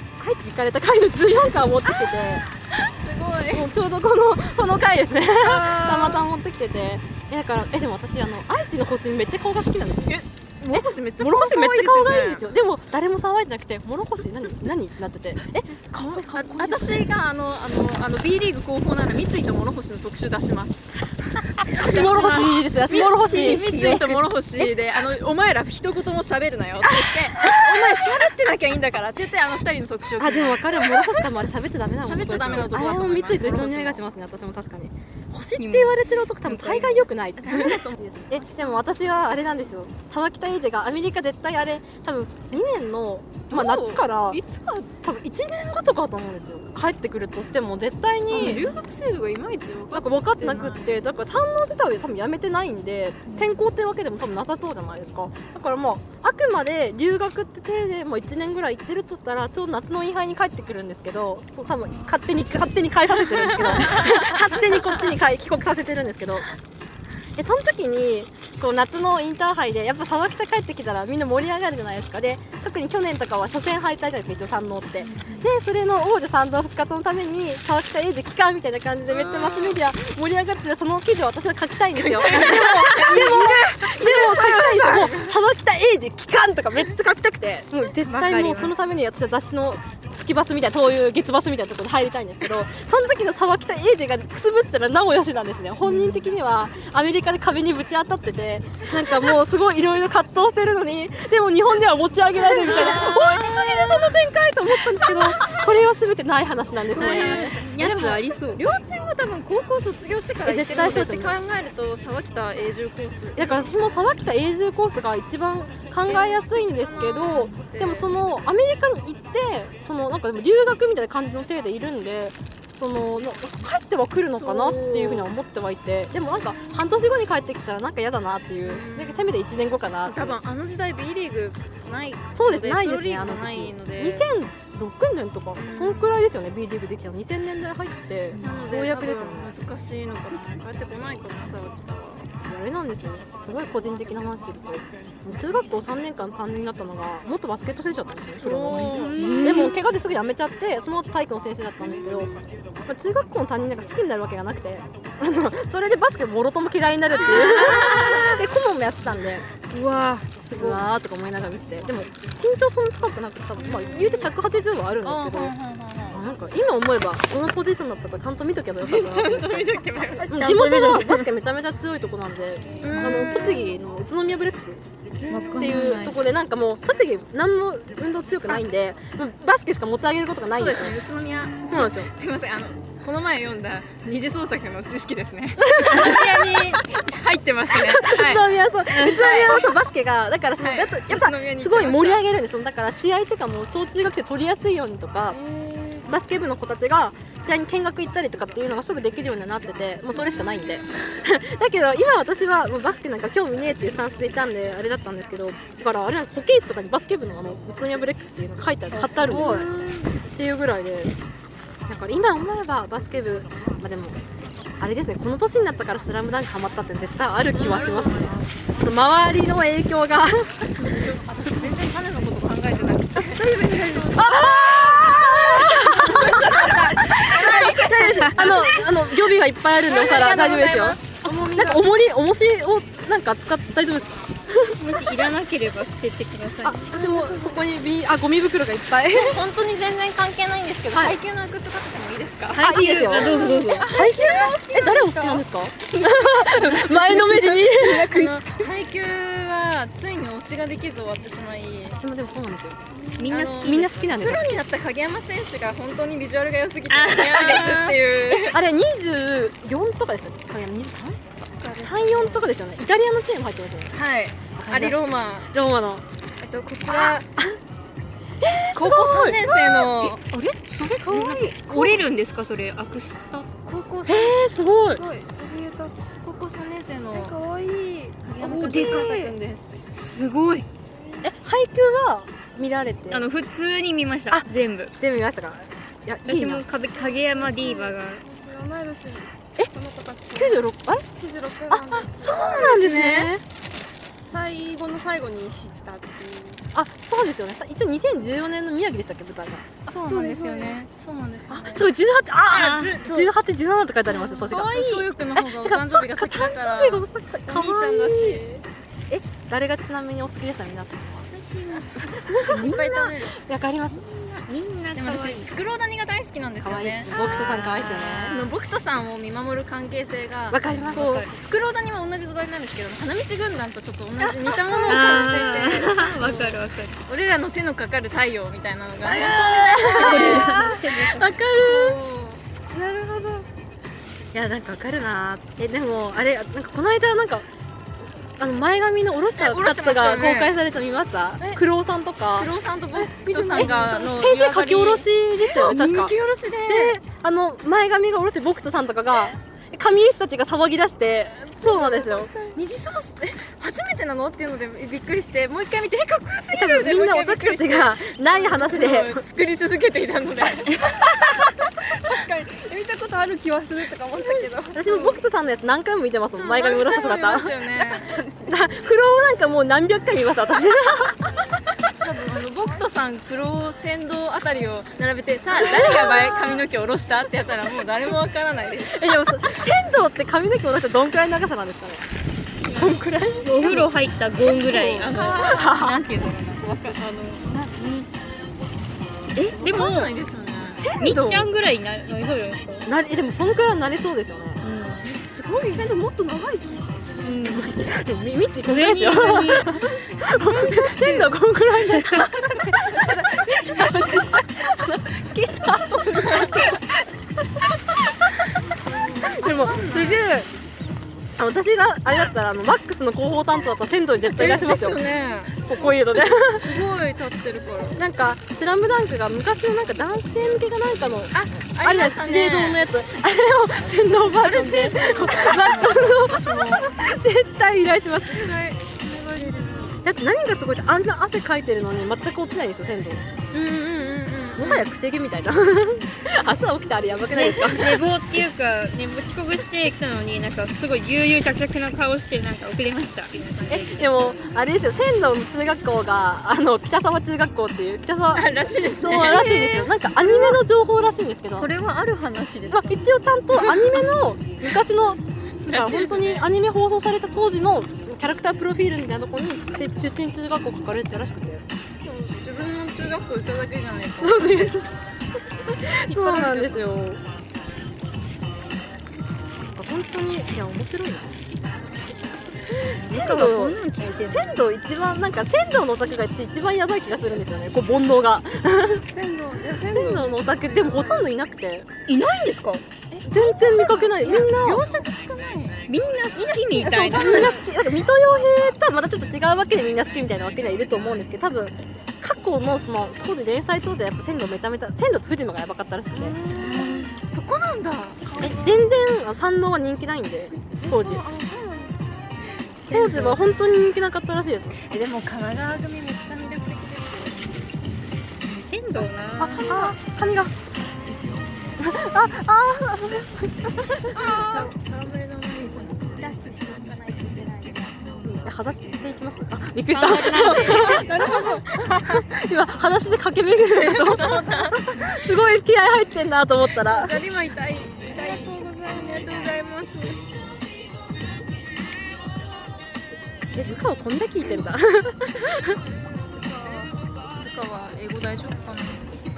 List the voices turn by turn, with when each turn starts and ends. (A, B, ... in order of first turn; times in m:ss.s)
0:00.2-0:02.4 A
0:02.7-0:03.7 B
0:03.5-0:17.1 A
0:05.4-0:06.2 B
0:10.1-0:12.4 B
0:16.0-0:20.9 B
0:21.6-0:30.8 B
0:21.8-0:24.7 A
0:23.2-0:23.6 C
0:26.8-0:27.9 A
0:30.2-0:44.4 A
0:32.0-0:34.0 B
0:35.6-0:37.1 C
0:37.4-0:39.7 B
0:43.5-0:44.9 B
0:45.0-0:48.7 A
0:48.2-0:51.1 B
0:48.4-0:48.7 C
0:49.9-1:06.4 A
1:03.9-1:04.2 B
1:07.4-1:48.1 A
1:15.0-1:15.4 B
1:19.1-1:19.8 B
1:22.0-1:25.3 B
1:28.0-1:28.9 C
1:35.8-1:36.3 C
1:42.4-1:44.1 B
1:45.1-1:45.7 B
1:46.9-1:48.6 C
1:46.9-1:54.0 B
1:50.4-1:51.4 A
1:53.4-2:10.4 A
1:56.0-1:58.1 B
2:04.4-2:05.3 B
2:06.3-2:07.0 B
2:08.6-2:09.3 B
2:10.0-2:14.3 B
2:12.3-2:19.5 A
2:15.6-2:16.2 B
2:18.4-2:18.6 C
2:18.4-2:22.3 B
2:22.4-2:32.3 A
2:28.4-2:29.8 B
2:28.7-2:29.8 C
2:31.9-2:32.4 B
2:32.9-2:39.5 A
2:37.3-2:38.3 C
2:37.4-2:38.2 B
2:39.7-2:40.8 C
2:40.5-2:45.5 A
2:43.6-2:44.3 B
2:45.0-2:46.2 B
2:46.1-2:54.8 A
2:48.8-2:50.4 B
2:50.3-2:51.2 C
2:52.8-2:53.8 B
2:52.9-2:53.4 C
2:55.2-2:56.1 B
2:55.3-2:56.2 C
2:55.5-3:01.0 A
3:00.5-3:09.7 B
3:01.7-3:02.1 A
3:05.6-3:06.8 A
3:07.7-3:15.4 A
3:08.9-3:09.3 C
3:10.6-3:12.2 B
3:15.3-3:16.0 B
3:16.0-3:31.1 A
3:20.1-3:21.2 B
3:28.9-3:29.7 B
3:28.9-3:29.6 C
3:31.9-3:34.2 A
3:34.8-3:40.7 A
3:37.5-3:38.5 B
3:40.7-3:48.9 B
3:43.4-3:54.8 A
3:43.4-3:44.3 D
3:49.8-3:51.8 B
3:54.8-3:56.8 C
3:56.6-3:59.4 A
3:56.8-3:57.7 D
3:59.1-4:05.4 B
4:00.9-4:01.2 A
4:02.5-4:03.9 C
4:02.6-4:08.3 A
4:04.0-4:05.0 D
4:06.8-4:12.0 B
4:12.0-4:12.8 A
4:13.2-4:13.9 C
4:13.3-4:18.6 B
4:13.6-4:14.6 A
4:16.9-4:18.0 C
4:17.4-4:23.9 A
4:21.6-4:22.5 B
4:23.9-4:25.5 B
4:24.6-4:25.0 A
4:25.5-4:26.0 A
4:26.4-4:27.2 B
4:26.9-4:27.6 A
4:28.4-4:31.8 A
4:28.7-4:30.2 B
4:30.8-4:33.5 C
4:31.2-4:31.9 B
4:33.6-4:34.4 B
4:34.1-4:35.0 A
4:34.9-4:36.0 D
4:36.2-4:37.4 B
4:37.1-4:38.2 D
4:38.2-4:39.9 B
4:38.4-4:39.3 A
4:38.4-4:39.2 C
4:39.9-4:40.6 C
4:40.9-4:41.3 D
4:41.2-4:43.2 A
4:43.1-4:44.9 C
4:45.0-4:46.6 A
4:46.2-4:48.2 C
4:46.9-4:52.9 D
4:50.3-4:51.0 A
4:51.7-4:53.4 A
4:52.3-4:53.2 B
4:52.8-4:53.3 C
4:54.3-4:56.6 D
4:56.7-4:59.7 A
4:59.8-5:01.9 B
4:59.9-5:00.8 D
5:01.5-5:08.4 A
5:02.5-5:03.0 C
5:02.5-5:03.3 B
5:04.4-5:08.6 B
5:09.1-5:11.3 A
5:11.3-5:13.1 C
5:12.0-5:14.2 A
5:12.4-5:13.4 B
5:14.3-5:15.5 C
5:15.0-5:17.1 B
5:16.6-5:18.4 A
5:17.1-5:18.2 C
5:18.0-5:26.5 B
5:20.5-5:21.2 A
5:20.7-5:21.3 C
5:24.2-5:25.4 A
5:24.9-5:27.0 C
5:27.1-5:30.8 B
5:29.0-5:32.0 A
5:29.9-5:31.3 C
5:31.5-5:32.4 B
5:32.9-5:33.2 D
5:34.3-5:37.4 A
5:38.4-5:52.3 A
5:39.4-5:40.5 B
5:42.4-5:47.0 B
5:51.6-5:52.6 D
5:52.5-6:01.1 B
5:56.5-5:59.2 A
6:02.0-6:05.0 D
6:04.2-6:05.2 B
6:04.7-6:07.6 A
6:06.3-6:08.2 B
6:08.4-6:11.2 A
6:12.0-6:19.1 B
6:15.5-6:16.6 A
6:18.8-6:22.0 A
6:22.7-6:26.0 A
6:23.4-6:28.1 C
6:25.2-6:25.8 B
6:29.3-6:30.1 C
6:29.6-6:30.8 B
6:30.8-6:31.5 A
6:31.0-6:32.9 C
6:32.8-6:34.6 A
6:34.6-6:35.1 C
6:35.0-6:35.9 B
6:35.7-6:46.8 A
6:37.2-6:37.7 C
6:38.6-6:39.8 C
6:40.3-6:41.3 B
6:42.0-6:42.2 C
6:46.3-6:46.5 B
6:48.7-6:50.3 B
6:49.2-6:50.5 A
6:51.4-6:55.0 A
6:54.3-6:58.0 B
6:55.6-6:56.8 A
6:57.9-7:08.5 A
7:01.3-7:02.8 B
7:04.3-7:06.9 B
7:08.2-7:09.9 B
7:10.0-7:13.2 A
7:13.5-7:14.9 B
7:14.6-7:18.0 A
7:17.3-7:24.4 C
7:23.7-7:31.7 A
7:28.3-7:30.6 B
7:31.6-7:33.0 C
7:32.7-7:41.6 A
7:35.6-7:36.5 B
7:42.0-7:44.7 B
7:44.2-7:44.9 A
7:45.6-7:47.2 A
7:46.1-7:46.8 B
7:49.7-7:51.3 A
7:52.7-7:59.0 A
7:53.1-7:54.5 C
7:59.1-8:01.3 D
7:59.9-8:01.9 A
8:02.1-8:02.8 C
8:03.1-8:04.3 D
8:03.3-8:04.9 A
8:03.6-8:05.8 B
8:05.9-8:07.6 C
8:06.7-8:16.4 A
8:07.2-8:07.4 B
8:16.2-8:17.2 D
8:16.5-8:18.4 B
8:16.7-8:17.0 C
8:18.2-8:18.9 D
8:18.4-8:21.2 A
8:20.7-8:22.2 D
8:22.9-8:23.3 C
8:22.9-8:23.6 B
8:22.9-8:24.7 A
8:24.8-8:27.5 B
8:28.4-8:29.9 C
8:29.4-8:30.5 A
8:31.8-8:34.1 A
8:34.1-8:36.2 B
8:34.2-8:34.5 D
8:36.2-8:38.3 C
8:38.3-8:47.2 A
8:39.8-8:41.1 C
8:40.9-8:41.6 D
8:43.7-8:45.2 B
8:46.8-8:50.2 B
8:48.1-8:50.1 D
8:53.5-8:55.8 A
8:56.3-8:56.9 D
8:57.4-8:59.1 B